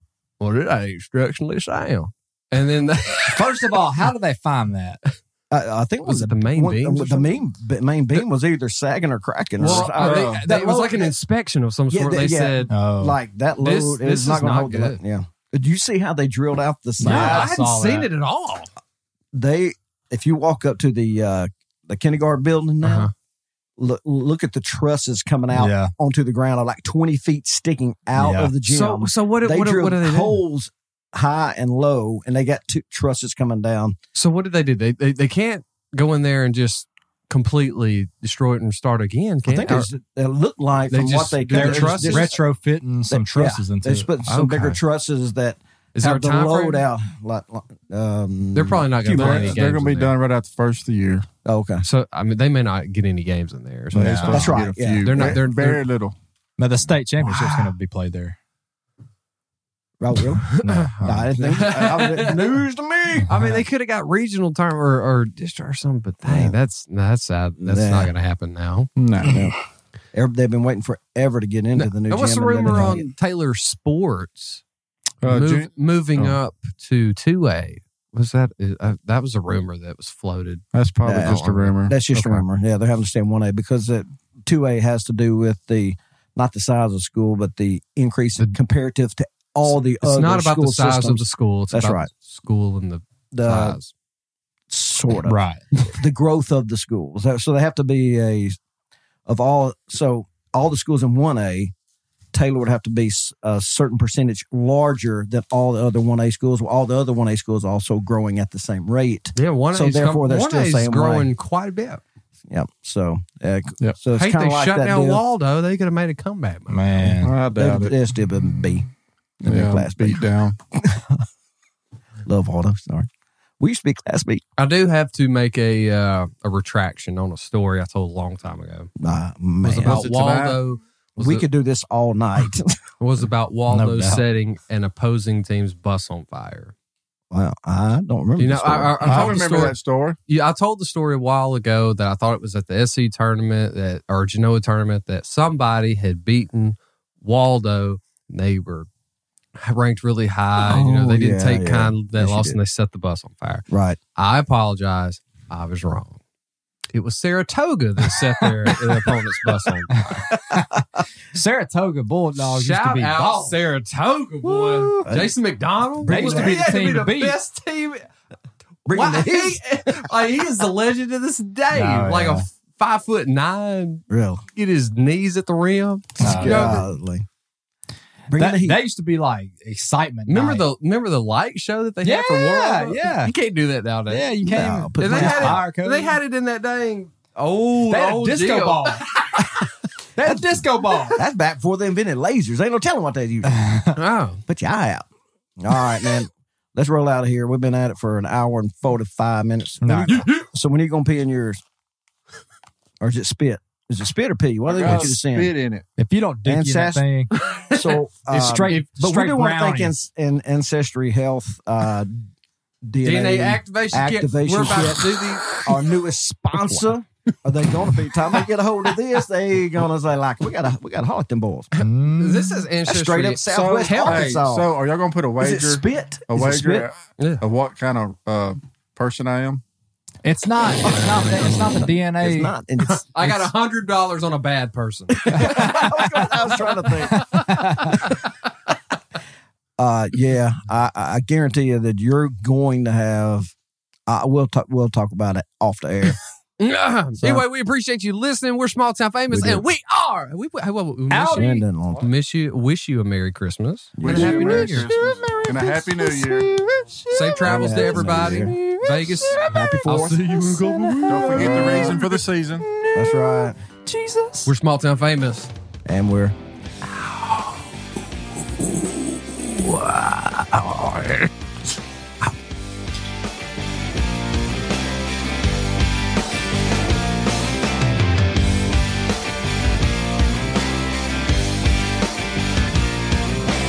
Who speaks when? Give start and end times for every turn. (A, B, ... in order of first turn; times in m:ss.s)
0:00.4-0:03.7 A
0:03.3-0:05.0 B
0:05.5-0:11.1 C
0:06.0-0:07.4 A
0:09.6-0:12.7 A
0:09.6-0:10.4 D
0:11.9-0:17.5 C
0:12.7-0:13.2 B
0:13.6-0:15.0 A
0:17.0-0:18.1 B
0:17.0-0:18.7 A
0:19.3-0:23.1 C
0:22.8-0:23.1 A
0:23.8-0:34.0 C
0:25.5-0:25.9 B
0:28.1-0:28.5 B
0:28.6-0:30.4 A
0:34.1-0:39.9 A
0:39.4-0:42.4 C
0:40.9-0:42.3 A
0:41.5-0:44.1 B
0:43.1-0:49.6 C
0:44.3-0:44.8 A
0:45.9-0:46.9 A
0:48.5-0:50.2 A
0:49.1-0:51.3 D
0:51.4-0:51.8 C
0:51.8-0:55.9 A
0:53.9-0:54.5 B
0:53.9-0:56.2 D
0:54.3-0:55.4 C
0:56.6-0:58.4 B
0:57.2-0:57.7 A
1:00.0-1:03.3 C
1:00.4-1:00.9 A
1:00.6-1:01.6 B
1:01.4-1:02.5 A
1:03.3-1:08.9 A
1:06.2-1:06.6 C
1:07.6-1:08.1 C
1:09.0-1:09.4 D
1:09.2-1:09.5 C
1:10.1-1:13.1 C
1:11.8-1:14.6 A
1:15.2-1:16.4 D
1:15.2-1:21.8 A
1:20.7-1:22.4 D
1:21.0-1:32.1 C
1:29.7-1:33.9 A
1:33.3-1:33.8 C
1:34.7-1:35.4 C
1:35.3-1:35.6 B
1:35.9-1:38.6 C
1:39.3-1:41.7 C
1:42.3-1:51.3 C
1:49.4-1:52.0 A
1:52.5-1:55.2 C
1:54.1-1:57.2 A
1:56.7-1:57.3 B
1:57.2-1:58.0 D
1:57.6-1:58.9 C
1:59.4-2:01.2 C
1:59.4-2:00.6 D
2:02.2-2:03.1 C
2:03.6-2:04.4 C
2:04.6-2:08.9 A
2:09.0-2:10.1 C
2:09.7-2:10.6 D
2:09.7-2:11.4 A
2:11.2-2:12.7 C
2:13.0-2:16.7 A
2:13.7-2:14.2 B
2:17.3-2:19.0 C
2:18.4-2:19.8 A
2:19.0-2:20.2 D
2:19.0-2:19.3 B
2:20.3-2:28.9 A
2:29.6-2:33.6 A
2:30.6-2:32.6 C
2:33.7-2:34.0 C
2:34.2-2:36.2 A
2:36.9-2:40.0 A
2:39.9-2:40.6 B
2:40.5-2:40.8 C
2:41.3-2:43.5 B
2:42.4-2:48.0 A
2:44.4-2:45.0 B
2:45.0-2:45.4 C
2:46.0-2:47.4 B
2:46.1-2:46.7 C
2:48.9-2:49.6 C
2:48.9-2:56.8 A
2:51.7-2:52.5 B
2:54.1-2:54.4 C
2:56.2-2:56.8 B
2:56.2-2:57.3 C
2:58.3-2:58.8 C
2:58.3-3:00.6 B
3:00.3-3:04.3 A
3:02.0-3:03.3 B
3:04.1-3:06.2 B
3:04.4-3:05.6 C
3:05.0-3:09.5 A
3:07.9-3:09.0 B
3:10.2-3:11.2 B
3:11.1-3:13.6 C
3:13.5-3:13.9 B
3:14.0-3:14.4 A
3:14.5-3:15.0 C
3:15.6-3:21.6 C
3:19.8-3:20.2 B
3:20.1-3:20.4 A
3:23.0-3:25.5 C
3:24.7-3:25.8 D
3:26.0-3:27.3 B
3:26.4-3:27.0 C
3:27.4-3:28.0 A
3:27.7-3:32.2 C
3:28.3-3:29.9 B
3:32.8-3:41.7 C
3:33.0-3:35.6 A
3:41.7-3:44.4 A
3:41.8-3:42.6 B
3:42.9-3:44.7 C
3:43.5-3:49.6 D
3:45.4-3:46.9 C
3:50.2-3:52.5 B
3:50.8-3:53.4 C
3:52.8-3:55.6 A
3:55.1-3:58.2 C
3:55.3-3:56.1 B
3:57.1-3:58.0 B
3:59.8-4:03.5 C
4:04.1-4:06.2 C
4:06.6-4:14.9 A
4:07.2-4:07.4 C
4:09.3-4:09.6 C
4:11.1-4:11.6 B
4:11.3-4:12.1 C
4:13.9-4:14.8 C
4:14.0-4:16.5 D
4:14.2-4:19.8 B
4:17.1-4:22.0 A
4:17.4-4:18.5 C
4:19.5-4:20.5 C
4:20.3-4:22.0 B
4:21.1-4:22.6 D
4:21.3-4:22.0 C
4:22.6-4:24.5 B
4:22.9-4:23.6 C
4:24.4-4:25.5 A
4:25.8-4:26.4 C
4:29.9-4:31.2 C